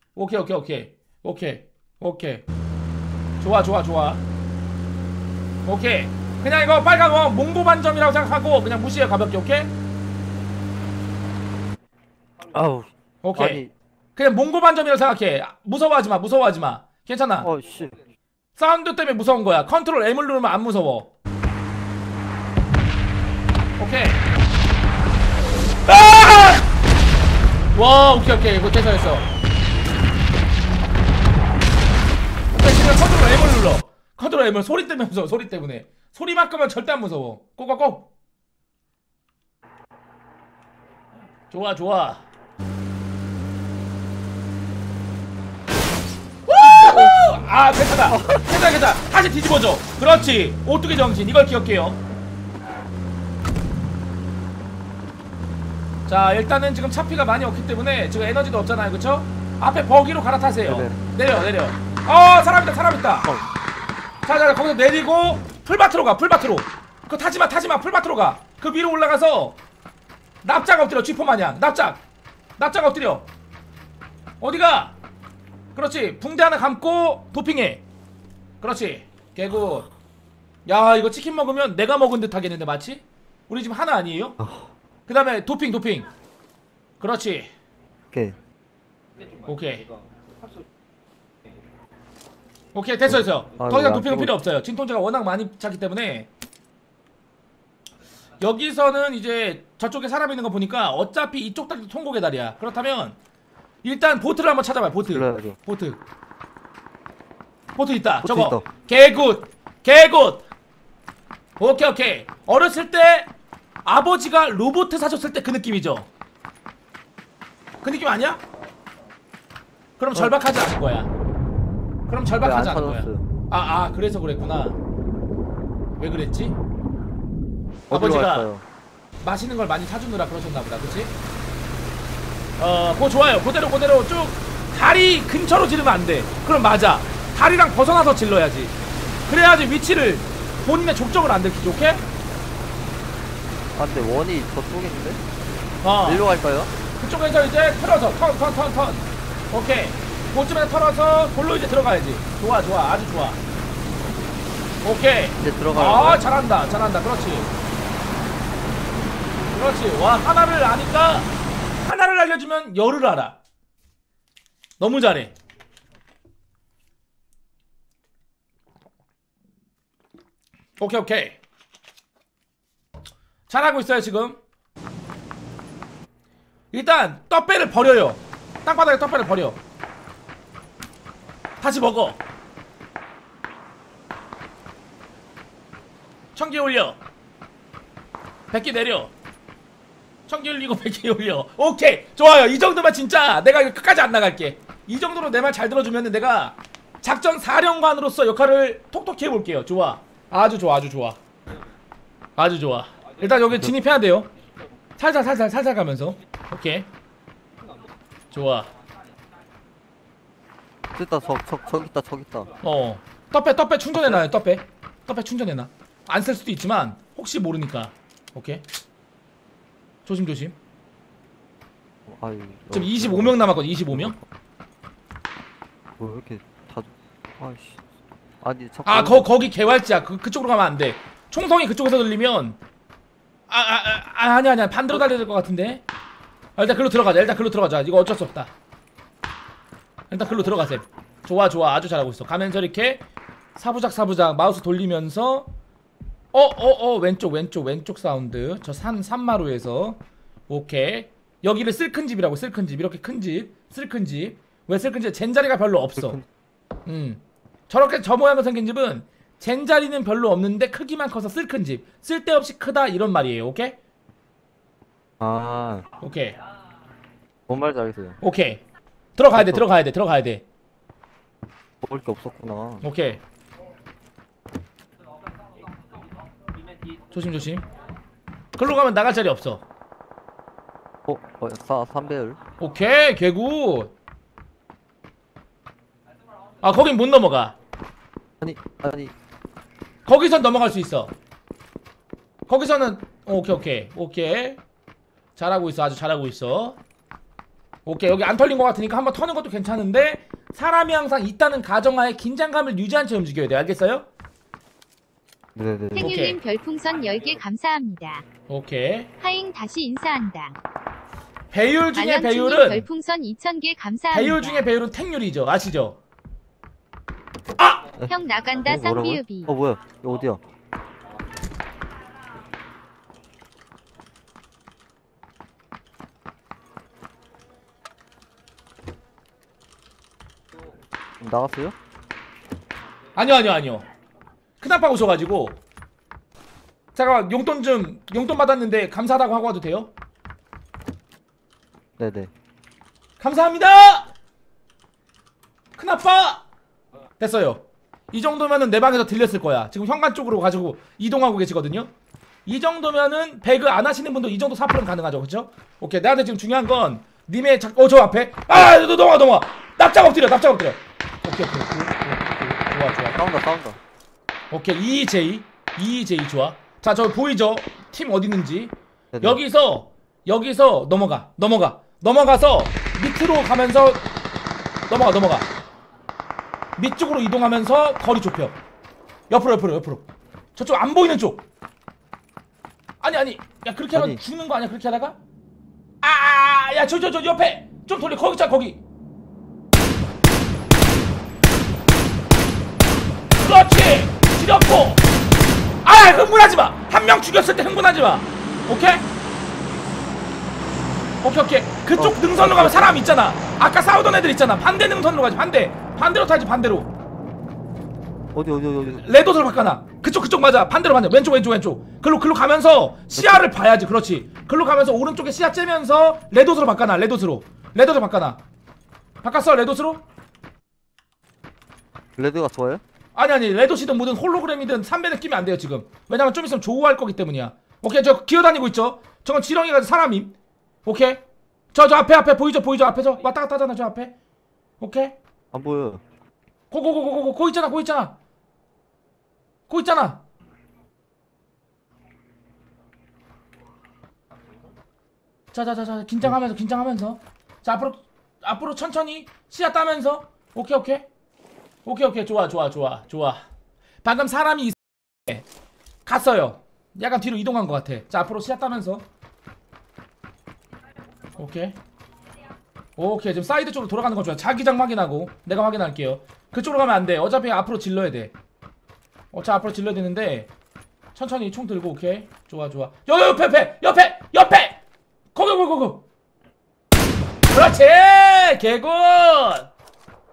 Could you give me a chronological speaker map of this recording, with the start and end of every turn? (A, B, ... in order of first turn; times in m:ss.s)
0:00.1-0:02.4 A
0:03.4-0:04.2 A
0:05.6-0:09.7 A
0:12.5-0:13.7 B
0:13.2-0:13.6 A
0:14.2-0:17.5 A
0:17.4-0:18.0 B
0:18.6-0:21.1 A
0:23.8-0:24.2 A
0:25.9-0:26.7 A
0:27.7-0:29.3 A
0:32.5-0:38.1 A
0:41.5-0:42.2 A
0:46.5-0:52.0 A
0:46.6-0:47.2 B
0:48.1-0:48.5 B
0:56.1-1:03.3 A
1:00.7-1:01.0 B
1:04.2-1:09.6 A
1:10.4-1:12.0 A
1:12.6-1:13.3 A
1:14.4-1:15.0 A
1:15.7-1:17.8 A
1:18.6-1:19.9 A
1:20.6-1:24.4 A
1:24.4-1:24.7 B
1:25.1-1:26.1 A
1:27.0-1:27.5 A
1:28.1-1:28.4 B
1:29.4-1:29.9 A
1:32.7-1:36.3 A
1:33.1-1:34.3 B
1:38.4-1:43.2 A
1:43.8-1:46.0 A
1:45.0-1:45.6 B
1:47.8-1:50.5 A
1:48.2-1:48.6 B
1:51.6-1:53.3 A
1:53.8-1:56.1 A
1:57.8-1:58.4 A
2:00.0-2:01.1 A
2:02.1-2:04.8 A
2:02.4-2:03.2 B
2:06.0-2:06.6 A
2:07.9-2:08.6 B
2:07.9-2:08.5 A
2:09.2-2:11.1 A
2:12.6-2:18.7 A
2:19.3-2:22.0 A
2:23.7-2:25.2 B
2:25.8-2:26.2 A
2:26.0-2:26.7 B
2:27.0-2:33.4 A
2:34.8-2:37.5 A
2:35.4-2:36.3 B
2:39.5-2:41.3 A
2:41.8-2:43.4 A
2:44.8-2:45.3 A
2:50.8-2:51.4 A
2:53.5-2:54.4 A
2:56.7-2:59.6 A
3:01.6-3:02.2 A
3:06.4-3:07.0 A
3:08.5-3:09.1 A
3:10.3-3:21.2 A
3:22.4-3:24.3 A
3:25.0-3:26.9 A
3:28.3-3:28.7 A
3:30.9-3:32.5 B
3:32.6-3:38.6 A
3:33.9-3:34.2 B
3:40.0-3:40.6 A
3:42.0-3:44.2 B
3:42.7-3:44.2 A
3:46.0-3:47.8 B
3:48.4-3:49.3 B
3:48.8-3:52.6 A
3:53.5-3:55.8 A
3:56.6-3:58.5 A
4:00.1-4:03.0 A
4:03.5-4:05.5 A
4:06.3-4:16.2 A
4:15.9-4:16.2 B
4:16.8-4:23.8 A
4:25.2-4:25.9 B
4:26.0-4:26.4 A
4:27.5-4:28.2 B
4:28.2-4:28.6 A
4:29.2-4:30.4 A
4:29.3-4:29.6 B
4:31.8-4:32.8 B
4:32.8-4:33.2 A
4:37.1-4:37.6 A
4:38.6-4:39.6 A
4:41.0-4:42.4 B
4:42.6-4:43.9 A
4:46.6-4:47.5 A
4:48.4-4:49.1 B
4:50.0-4:51.1 A
4:52.5-4:54.6 A
4:55.4-4:56.8 A
4:57.8-5:04.1 A
5:05.5-5:06.2 B
5:05.9-5:08.2 C
5:06.0-5:06.4 A
5:08.5-5:09.1 A
5:09.2-5:10.6 C
5:11.5-5:12.9 A
5:11.9-5:14.7 C
5:14.1-5:16.0 A
5:17.6-5:17.8 A
5:18.0-5:20.4 B
5:18.1-5:19.5 C
5:31.2-5:31.8 B
5:33.2-5:33.9 A
5:34.6-5:35.6 A
5:36.9-5:39.9 A
5:42.0-5:42.3 B
5:43.2-5:44.1 A
5:45.8-5:46.4 A
5:47.2-5:51.9 A
5:52.4-6:03.2 A
6:03.1-6:03.8 B
6:04.5-6:14.1 A
6:09.1-6:09.4 B
6:14.9-6:15.5 A
6:16.8-6:18.6 A
6:19.3-6:21.4 A
6:23.0-6:25.2 A
6:23.9-6:24.2 B
6:26.0-6:28.8 A
6:33.4-6:35.0 A
6:35.8-6:39.1 A
6:41.2-6:46.9 A
6:41.9-6:43.0 B
6:48.3-6:49.0 B
6:49.0-6:58.4 A
6:53.1-6:53.5 B
6:59.2-7:00.0 A
7:02.2-7:02.8 B
7:03.1-7:10.3 A
7:10.8-7:11.2 A
7:11.7-7:14.1 A
7:14.8-7:15.2 A
7:15.5-7:16.0 B
7:16.7-7:18.2 A
7:19.7-7:20.2 A
7:25.5-7:31.0 A
7:31.8-7:33.4 A
7:34.0-7:35.4 A
7:36.0-7:39.0 A
7:41.4-7:41.8 A
7:43.0-7:48.3 A
7:49.3-7:50.5 A
7:51.1-7:54.8 A
7:55.3-7:56.0 A
7:57.5-7:59.7 A